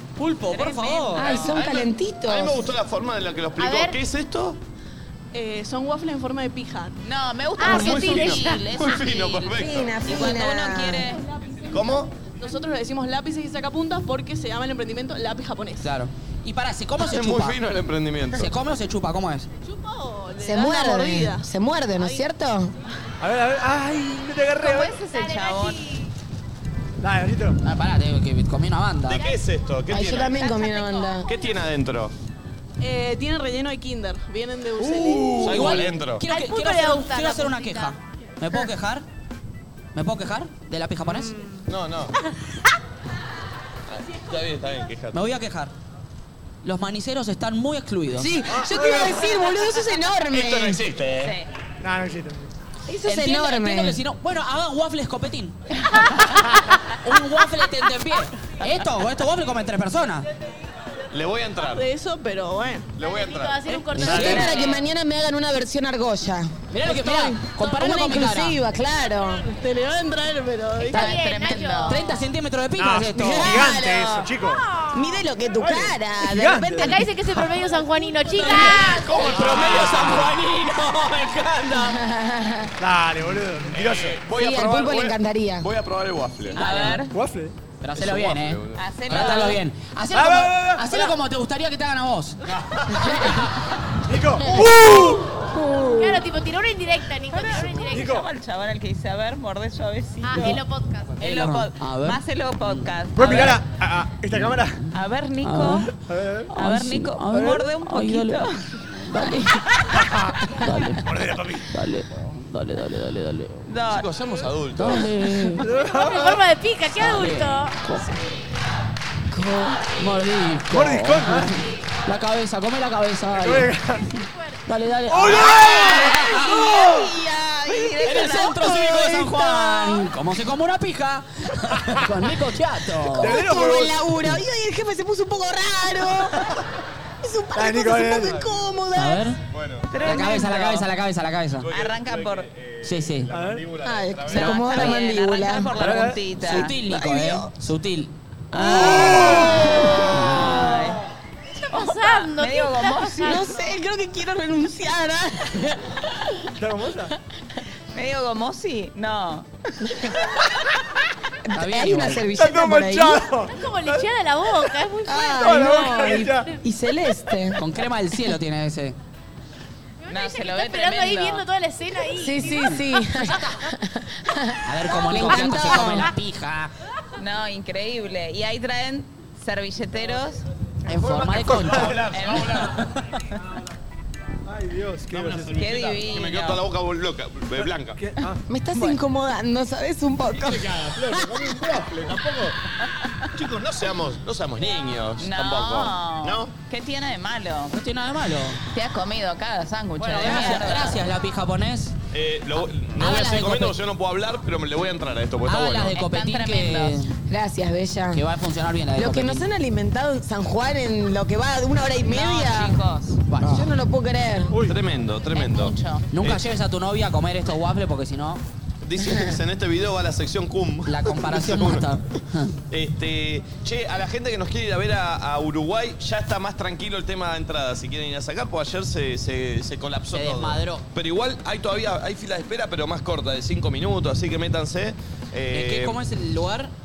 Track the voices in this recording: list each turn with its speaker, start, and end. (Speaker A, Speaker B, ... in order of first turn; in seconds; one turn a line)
Speaker A: 0.2-1.5
Speaker B: 0.5-1.5
Speaker C: 1.1-2.7
Speaker D: 1.6-4.6
Speaker E: 3.6-4.0
Speaker F: 5.3-7.0
Speaker B: 7.0-11.2
Speaker E: 7.6-8.6
Speaker D: 7.7-10.0
Speaker C: 9.6-11.1
Speaker D: 11.7-12.1
Speaker F: 12.3-15.9
Speaker A: 15.8-17.6
Speaker D: 17.0-18.5
Speaker A: 18.4-19.5
Speaker F: 19.6-21.5
Speaker C: 20.4-22.7
Speaker G: 23.2-25.0
Speaker B: 24.6-25.9
Speaker E: 25.0-26.1
Speaker G: 27.0-27.6
Speaker A: 27.6-29.2
Speaker D: 29.1-30.4
Speaker C: 29.9-31.3
Speaker B: 30.3-31.3
Speaker D: 31.3-32.1
Speaker F: 32.8-35.5
Speaker G: 34.8-35.6
Speaker D: 35.3-36.3
Speaker A: 35.4-39.0
Speaker E: 36.3-38.0
Speaker A: 40.0-41.4
Speaker D: 41.7-42.1
Speaker D: 43.9-45.2
Speaker A: 45.1-45.7
Speaker A: 46.6-48.4
Speaker C: 48.1-50.8
Speaker G: 48.5-49.5
Speaker D: 50.3-51.4
Speaker B: 51.2-51.5
Speaker G: 51.8-52.5
Speaker C: 52.9-54.0
Speaker A: 53.1-55.6
Speaker A: 57.0-60.2
Speaker D: 61.1-61.9
Speaker F: 61.6-62.9
Speaker D: 63.0-64.4
Speaker E: 63.0-64.8
Speaker A: 63.9-64.6
Speaker C: 64.0-69.5
Speaker A: 66.7-68.6
Speaker F: 69.4-70.9
Speaker E: 70.8-72.2
Speaker B: 70.9-72.0
Speaker A: 70.9-73.8
Speaker G: 72.8-74.7
Speaker C: 73.1-74.3
Speaker E: 74.6-75.2
Speaker C: 74.9-77.1
Speaker G: 75.6-77.7
Speaker E: 76.8-79.2
Speaker A: 78.4-81.2
Speaker D: 78.5-81.9
Speaker G: 79.3-80.2
Speaker C: 81.7-82.7
Speaker G: 82.8-84.2
Speaker D: 83.7-86.9
Speaker C: 84.3-85.7
Speaker B: 86.5-87.1
Speaker A: 86.6-87.0
Speaker G: 87.1-87.5
Speaker A: 87.8-92.4
Speaker D: 88.0-88.8
Speaker B: 88.8-89.6
Speaker G: 90.1-91.1
Speaker G: 94.1-95.2
Speaker C: 95.6-96.2
Speaker E: 95.9-98.2
Speaker G: 97.4-98.3
Speaker B: 97.7-100.6
Speaker E: 100.2-101.2
Speaker B: 101.2-103.6
Speaker A: 101.2-103.5
Speaker G: 103.2-104.8
Speaker B: 104.9-105.9
Speaker A: 105.4-105.9
Speaker G: 106.1-106.5
Speaker A: 106.5-109.9
Speaker B: 106.5-108.7
Speaker G: 109.9-110.4
Speaker A: 110.5-111.1
Speaker G: 111.0-111.7
Speaker A: 111.7-113.7
Speaker B: 113.7-114.1
Speaker D: 113.9-115.1
Speaker A: 114.7-115.7
Speaker G: 115.6-116.4
Speaker E: 115.7-117.8
Speaker A: 116.9-118.2
Speaker C: 119.4-119.8
Speaker A: 119.9-123.7
Speaker G: 120.7-121.5
Speaker G: 123.4-124.0
Speaker E: 124.1-124.6
Speaker A: 124.7-126.5
Speaker G: 125.1-127.1
Speaker C: 125.3-130.1
Speaker A: 128.0-133.5
Speaker G: 133.1-134.1
Speaker C: 133.2-136.5
Speaker G: 136.2-136.5
Speaker C: 137.2-139.3
Speaker G: 137.6-138.4
Speaker A: 138.9-139.4
Speaker D: 139.5-140.3
Speaker B: 139.9-140.9
Speaker A: 140.0-141.7
Speaker D: 141.6-144.6
Speaker B: 141.7-142.5
Speaker A: 142.8-143.3
Speaker G: 143.3-143.7
Speaker C: 143.8-145.8
Speaker B: 144.3-146.8
Speaker A: 144.3-145.1
Speaker G: 145.8-146.2
Speaker A: 146.3-150.6
Speaker C: 146.5-147.5
Speaker C: 148.5-149.8
Speaker B: 148.5-151.0
Speaker E: 151.7-153.8
Speaker B: 151.7-153.5
Speaker C: 153.2-156.0
Speaker G: 156.6-157.1
Speaker B: 157.9-159.5
Speaker C: 159.8-160.2
Speaker C: 161.5-163.2
Speaker A: 161.5-162.3
Speaker G: 162.3-164.1
Speaker E: 163.5-165.7
Speaker C: 165.1-167.6
Speaker G: 165.3-166.5
Speaker A: 167.6-169.0
Speaker E: 170.0-173.3
Speaker B: 170.1-171.4
Speaker C: 172.2-176.1
Speaker A: 173.3-173.6
Speaker A: 174.7-176.7
Speaker B: 177.2-180.4
Speaker A: 180.9-182.1
Speaker G: 180.9-182.0
Speaker D: 181.8-182.7
Speaker B: 182.1-182.7
Speaker G: 184.5-185.9
Speaker D: 185.1-188.1
Speaker B: 185.6-186.6
Speaker G: 187.6-188.4
Speaker C: 188.5-191.7
Speaker G: 190.3-192.6
Speaker D: 193.3-196.5
Speaker B: 195.2-197.8
Speaker A: 197.7-198.6
Speaker B: 198.7-201.0
Speaker A: 200.0-201.9
Speaker D: 202.1-206.0
Speaker A: 203.0-203.8
Speaker A: 205.4-207.2
Speaker B: 205.9-207.0
Speaker C: 207.3-208.2
Speaker A: 208.1-209.5
Speaker C: 208.9-212.8
Speaker B: 212.0-213.2
Speaker A: 213.3-213.7
Speaker C: 213.4-214.6
Speaker G: 214.5-214.8
Speaker D: 214.6-216.5
Speaker B: 215.3-216.1
Speaker A: 216.1-218.4
Speaker D: 218.8-221.9
Speaker C: 219.0-219.4
Speaker A: 220.9-222.6
Speaker D: 222.7-236.0
Speaker A: 230.1-230.9
Speaker A: 235.5-236.7